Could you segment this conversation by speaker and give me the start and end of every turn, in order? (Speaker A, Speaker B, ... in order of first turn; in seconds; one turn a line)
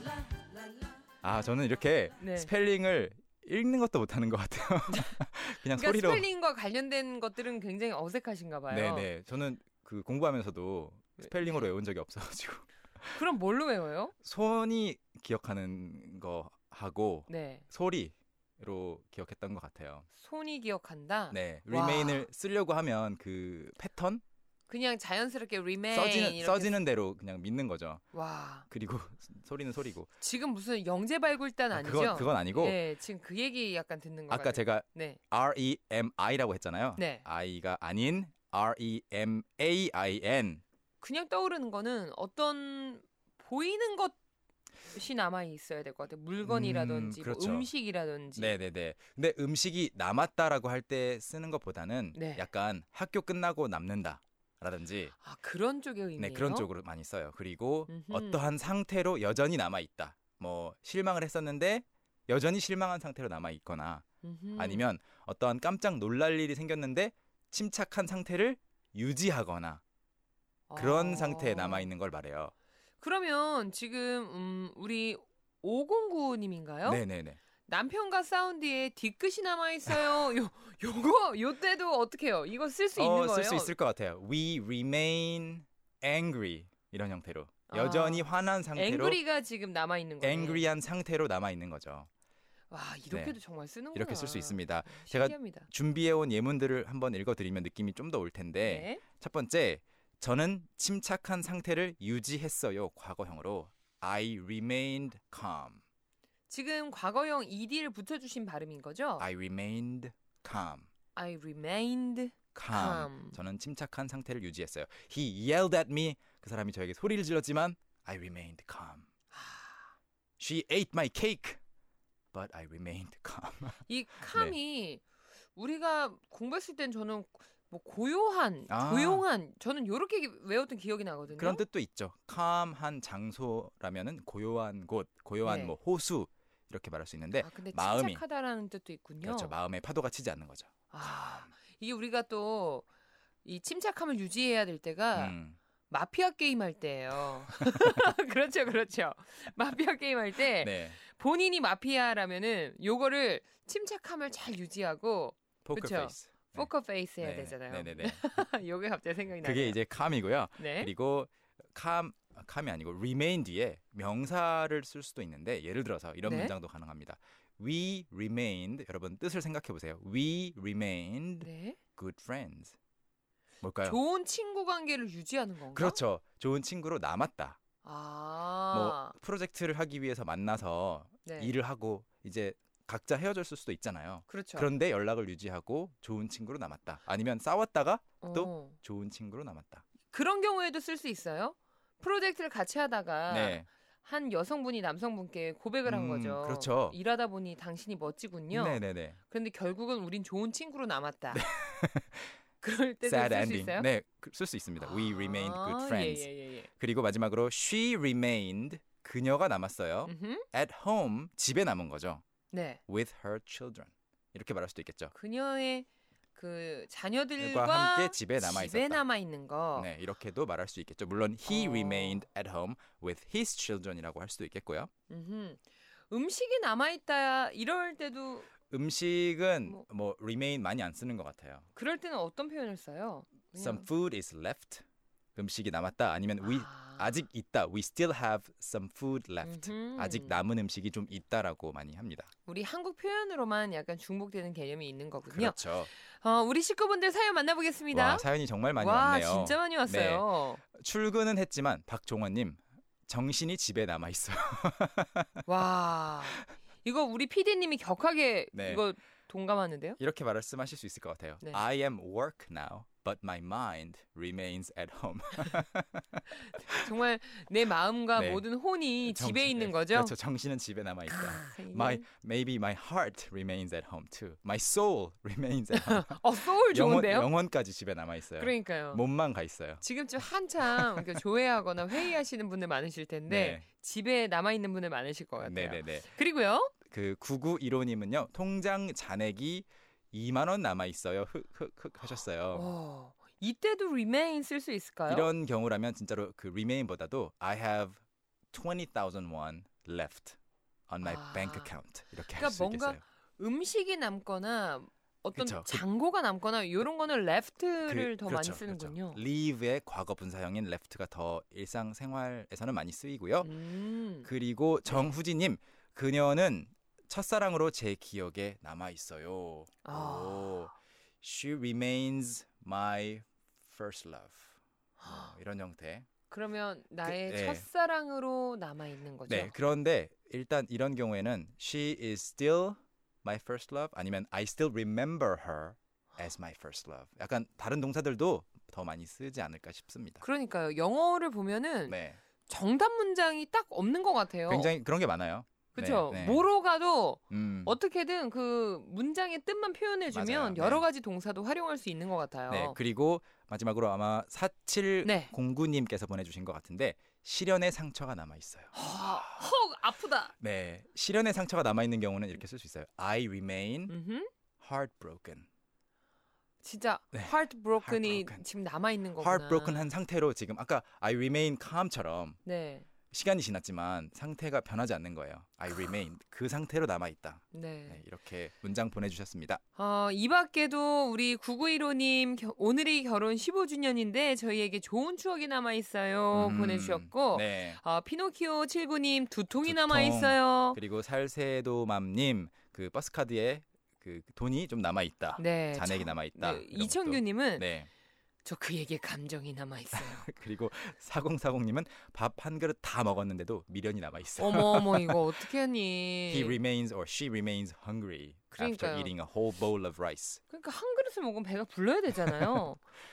Speaker A: 1.2-6.3
Speaker B: 2.2-2.5
Speaker B: 5.7-9.1
Speaker A: 8.7-13.2
Speaker B: 11.2-11.7
Speaker B: 13.1-14.1
Speaker A: 14.2-20.1
Speaker B: 17.3-17.6
Speaker B: 20.1-22.3
Speaker A: 21.3-24.2
Speaker B: 24.7-26.8
Speaker A: 25.9-28.0
Speaker B: 28.1-28.7
Speaker A: 28.7-30.1
Speaker B: 30.2-35.2
Speaker A: 31.7-32.8
Speaker A: 34.3-40.6
Speaker B: 37.0-37.2
Speaker B: 41.0-44.2
Speaker B: 44.9-48.5
Speaker A: 46.4-47.7
Speaker A: 48.4-55.1
Speaker B: 52.1-52.5
Speaker B: 55.2-56.7
Speaker A: 56.2-64.0
Speaker B: 57.9-58.4
Speaker B: 64.2-64.8
Speaker A: 64.6-69.8
Speaker B: 70.7-71.9
Speaker A: 70.8-72.5
Speaker B: 73.0-77.0
Speaker A: 76.8-77.4
Speaker B: 77.7-83.7
Speaker A: 83.0-89.2
Speaker B: 87.7-90.7
Speaker A: 90.2-92.1
Speaker B: 92.7-95.7
Speaker A: 93.1-93.4
Speaker A: 93.9-105.8
Speaker B: 98.6-99.0
Speaker B: 106.5-109.2
Speaker A: 109.2-110.9
Speaker B: 111.1-113.3
Speaker A: 112.5-119.1
Speaker B: 119.3-119.9
Speaker A: 120.4-121.6
Speaker A: 122.3-124.5
Speaker B: 123.9-125.0
Speaker B: 125.5-131.6
Speaker A: 128.7-129.2
Speaker A: 131.3-138.2
Speaker B: 135.4-135.8
Speaker B: 137.4-139.5
Speaker A: 139.2-140.7
Speaker B: 140.9-142.8
Speaker B: 143.4-145.3
Speaker A: 145.1-145.6
Speaker B: 145.9-159.8
Speaker A: 150.6-151.0
Speaker A: 155.6-156.7
Speaker A: 157.2-158.2
Speaker A: 159.4-172.8
Speaker B: 160.6-160.9
Speaker B: 166.2-166.5
Speaker B: 171.4-171.8
Speaker A: 173.6-174.0
Speaker B: 173.8-176.0
Speaker A: 175.7-177.6
Speaker B: 177.8-179.1
Speaker A: 178.7-189.8
Speaker B: 181.2-181.5
Speaker B: 184.3-184.7
Speaker B: 188.2-188.8
Speaker B: 190.1-201.4
Speaker A: 193.3-193.7
Speaker A: 195.8-196.9
Speaker A: 198.5-199.2
Speaker A: 201.3-202.3
Speaker B: 202.6-203.9
Speaker A: 203.0-212.2
Speaker B: 204.8-206.7
Speaker B: 210.1-210.4
Speaker B: 212.5-212.8
Speaker A: 212.9-215.1
Speaker B: 215.1-219.9
Speaker A: 217.4-219.0
Speaker A: 219.8-224.9
Speaker B: 221.5-222.2
Speaker B: 225.1-228.5
Speaker A: 228.7-231.7
Speaker B: 231.8-233.9
Speaker A: 233.5-234.8
Speaker A: 235.4-242.3
Speaker B: 236.4-237.2
Speaker B: 239.4-240.3
Speaker B: 242.4-250.6
Speaker A: 245.3-245.9
Speaker A: 247.9-255.4
Speaker B: 255.4-260.0
Speaker A: 258.5-258.8
Speaker A: 260.0-266.7
Speaker B: 266.6-270.1
Speaker A: 268.1-268.5
Speaker A: 269.0-279.8
Speaker B: 271.1-272.1
Speaker B: 275.7-277.3
Speaker B: 278.4-279.0
Speaker B: 279.8-286.7
Speaker A: 280.8-281.2
Speaker A: 283.3-283.6
Speaker A: 285.4-286.1
Speaker A: 286.8-292.7
Speaker B: 292.5-295.3
Speaker A: 295.1-298.0
Speaker A: 298.5-300.4
Speaker A: 300.9-303.0
Speaker B: 301.0-301.7
Speaker B: 302.3-309.2
Speaker A: 305.3-305.8
Speaker A: 307.8-313.5
Speaker B: 313.4-314.3
Speaker A: 314.2-324.4
Speaker B: 314.9-315.1
Speaker B: 319.8-320.7
Speaker B: 325.0-325.3
Speaker A: 325.1-326.1
Speaker B: 326.3-329.5
Speaker A: 327.0-327.6
Speaker A: 329.3-340.2
Speaker B: 340.2-344.7
Speaker A: 341.9-342.2
Speaker A: 344.5-346.5
Speaker B: 345.8-352.8
Speaker A: 347.3-347.8
Speaker A: 350.1-350.8
Speaker A: 352.5-359.5
Speaker B: 355.0-355.3
Speaker B: 358.7-360.3
Speaker A: 360.4-363.9
Speaker B: 363.9-364.3
Speaker A: 364.6-365.5
Speaker B: 366.6-369.9
Speaker A: 367.1-368.4
Speaker A: 369.2-372.4
Speaker B: 372.4-372.9
Speaker A: 373.1-379.6
Speaker B: 377.5-378.0
Speaker B: 379.8-390.8
Speaker A: 386.3-387.8
Speaker A: 389.6-397.9
Speaker B: 395.4-397.7
Speaker B: 398.4-400.2
Speaker A: 399.9-405.3
Speaker B: 404.4-406.6
Speaker A: 406.3-410.4
Speaker B: 408.5-409.1
Speaker B: 410.5-412.8